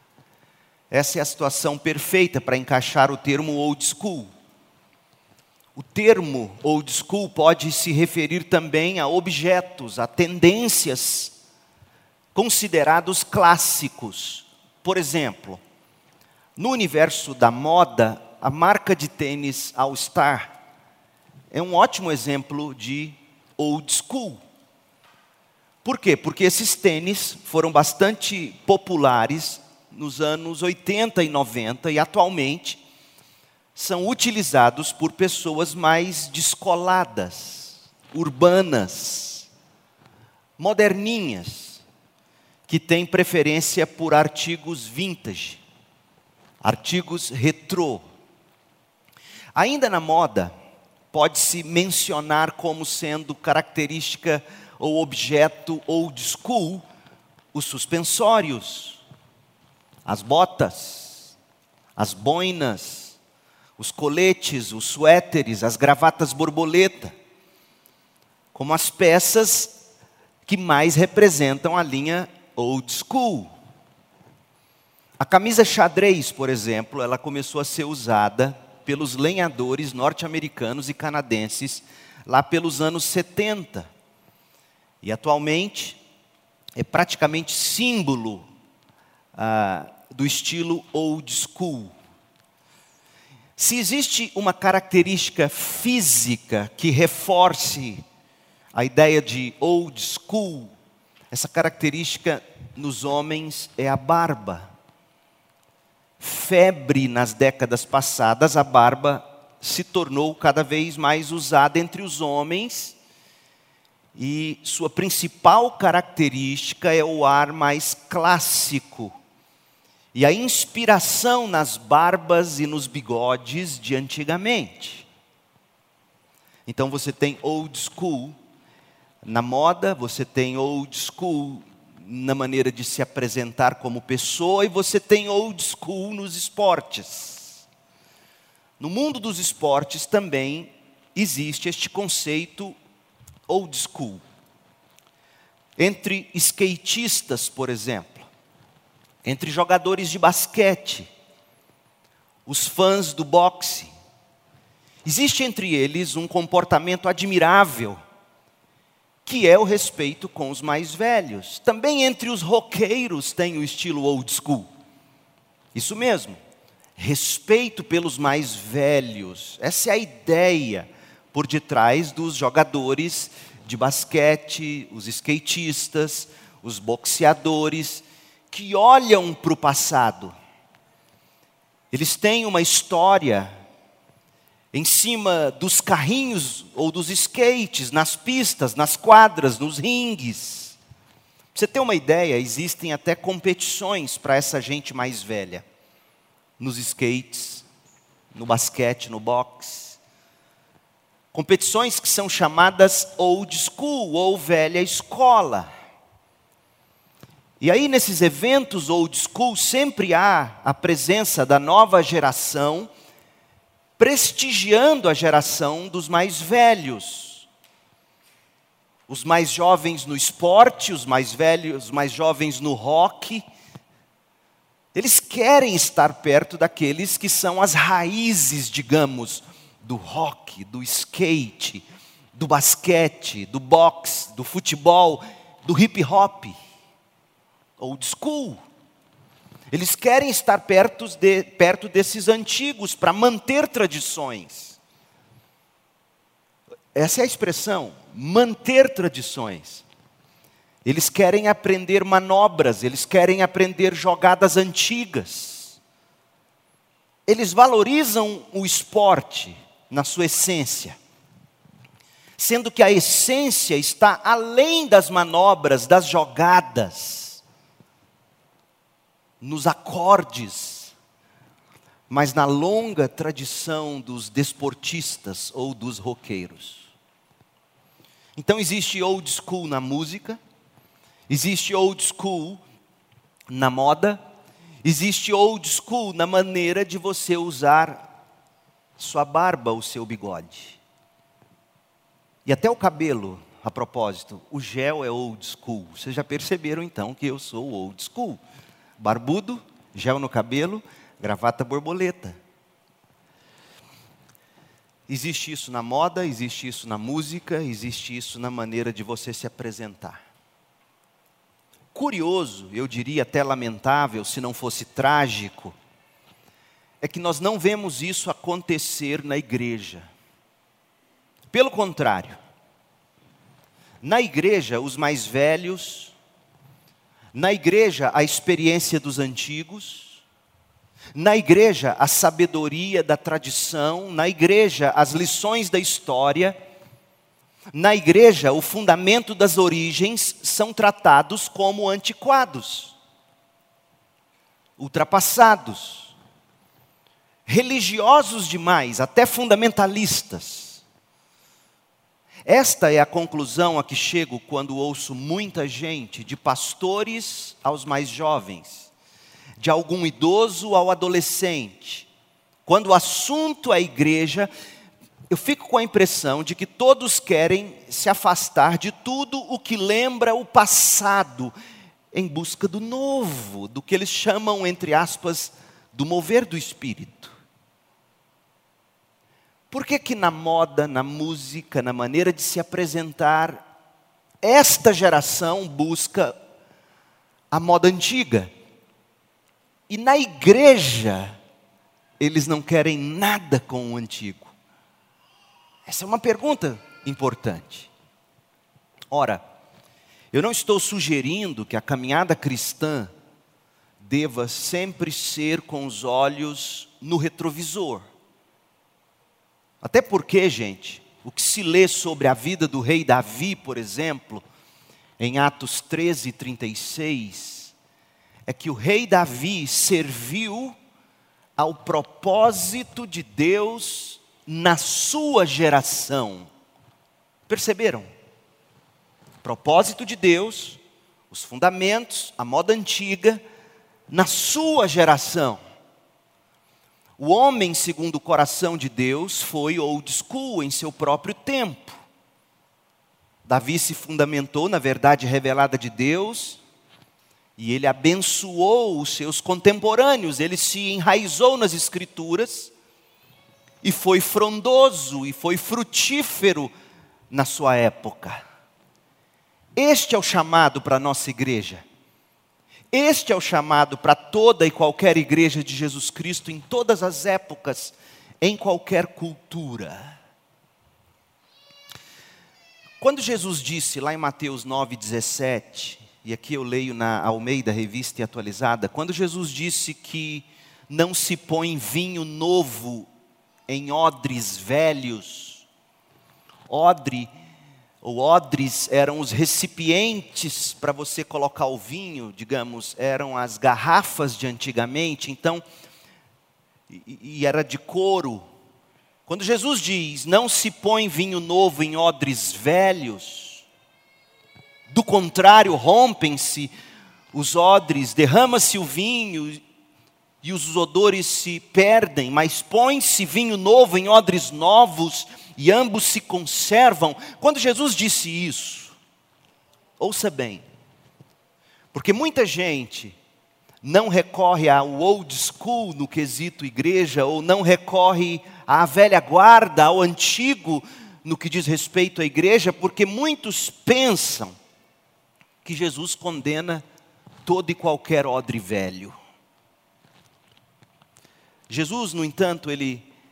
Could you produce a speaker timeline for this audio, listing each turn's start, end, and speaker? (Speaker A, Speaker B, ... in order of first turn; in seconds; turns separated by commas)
Speaker A: 0.9-4.3, Speaker A: 5.8-11.3, Speaker A: 12.3-15.6, Speaker A: 16.6-20.6, Speaker A: 21.5-24.4, Speaker A: 25.8-32.8, Speaker A: 33.8-39.5, Speaker A: 40.6-41.8, Speaker A: 42.7-45.6, Speaker A: 46.6-48.0, Speaker A: 49.6-50.5, Speaker A: 51.1-56.8, Speaker A: 57.5-59.0, Speaker A: 60.1-61.4, Speaker A: 62.0-63.2, Speaker A: 63.8-67.1, Speaker A: 68.5-69.8, Speaker A: 70.5-73.5, Speaker A: 75.2-83.9, Speaker A: 85.0-86.0, Speaker A: 86.8-88.5, Speaker A: 89.3-92.0, Speaker A: 93.6-98.0, Speaker A: 98.7-100.7, Speaker A: 101.3-104.7, Speaker A: 106.2-113.0, Speaker A: 114.2-119.2, Speaker A: 120.1-125.1, Speaker A: 126.7-128.4, Speaker A: 129.2-137.6, Speaker A: 138.8-142.8, Speaker A: 143.5-144.2, Speaker A: 145.8-148.3, Speaker A: 149.2-151.1, Speaker A: 152.5-153.9, Speaker A: 155.1-158.0, Speaker A: 159.2-164.7, Speaker A: 165.8-166.4, Speaker A: 167.0-180.3, Speaker A: 181.9-183.5, Speaker A: 184.7-190.8, Speaker A: 191.6-195.7, Speaker A: 196.6-197.7, Speaker A: 198.3-200.0, Speaker A: 201.3-205.7, Speaker A: 207.6-212.9, Speaker A: 214.0-217.5, Speaker A: 219.1-223.4, Speaker A: 224.9-236.5, Speaker A: 237.8-238.6, Speaker A: 239.7-244.8, Speaker A: 246.9-249.8, Speaker A: 250.8-255.8, Speaker A: 257.3-261.0, Speaker A: 262.4-267.4, Speaker A: 269.4-270.9, Speaker A: 272.1-276.9, Speaker A: 278.4-280.4, Speaker A: 281.3-282.6, Speaker A: 283.5-284.2, Speaker A: 284.8-288.1, Speaker A: 289.0-290.8, Speaker A: 292.5-298.4, Speaker A: 299.0-302.4, Speaker A: 305.1-310.2, Speaker A: 311.9-315.8, Speaker A: 317.0-320.1, Speaker A: 321.5-322.4, Speaker A: 324.0-326.1, Speaker A: 327.3-330.2, Speaker A: 331.1-336.6, Speaker A: 337.7-342.9, Speaker A: 344.8-346.1, Speaker A: 347.5-350.8, Speaker A: 352.5-358.9, Speaker A: 359.6-362.1, Speaker A: 362.7-364.5, Speaker A: 365.3-371.5, Speaker A: 372.1-377.4, Speaker A: 379.7-383.7, Speaker A: 384.4-386.3, Speaker A: 387.5-388.5, Speaker A: 389.9-391.4, Speaker A: 392.2-394.5, Speaker A: 395.9-397.9, Speaker A: 399.1-399.4, Speaker A: 400.3-403.1, Speaker A: 404.0-408.1, Speaker A: 409.8-414.4, Speaker A: 415.2-417.7, Speaker A: 418.5-420.8, Speaker A: 421.6-426.5, Speaker A: 427.5-428.1, Speaker A: 429.4-433.4, Speaker A: 434.1-435.6, Speaker A: 437.2-442.0, Speaker A: 443.5-446.6, Speaker A: 447.6-452.7, Speaker A: 453.8-456.7, Speaker A: 457.3-458.4, Speaker A: 459.8-461.8, Speaker A: 462.9-470.2, Speaker A: 473.0-483.1, Speaker A: 483.7-485.6, Speaker A: 486.7-487.3, Speaker A: 488.0-495.6, Speaker A: 496.9-498.5, Speaker A: 499.3-503.6, Speaker A: 504.9-506.7, Speaker A: 507.3-509.6, Speaker A: 510.4-519.0, Speaker A: 520.0-520.6, Speaker A: 521.9-523.2, Speaker A: 523.8-534.5, Speaker A: 535.6-536.8, Speaker A: 537.5-539.2, Speaker A: 541.7-543.1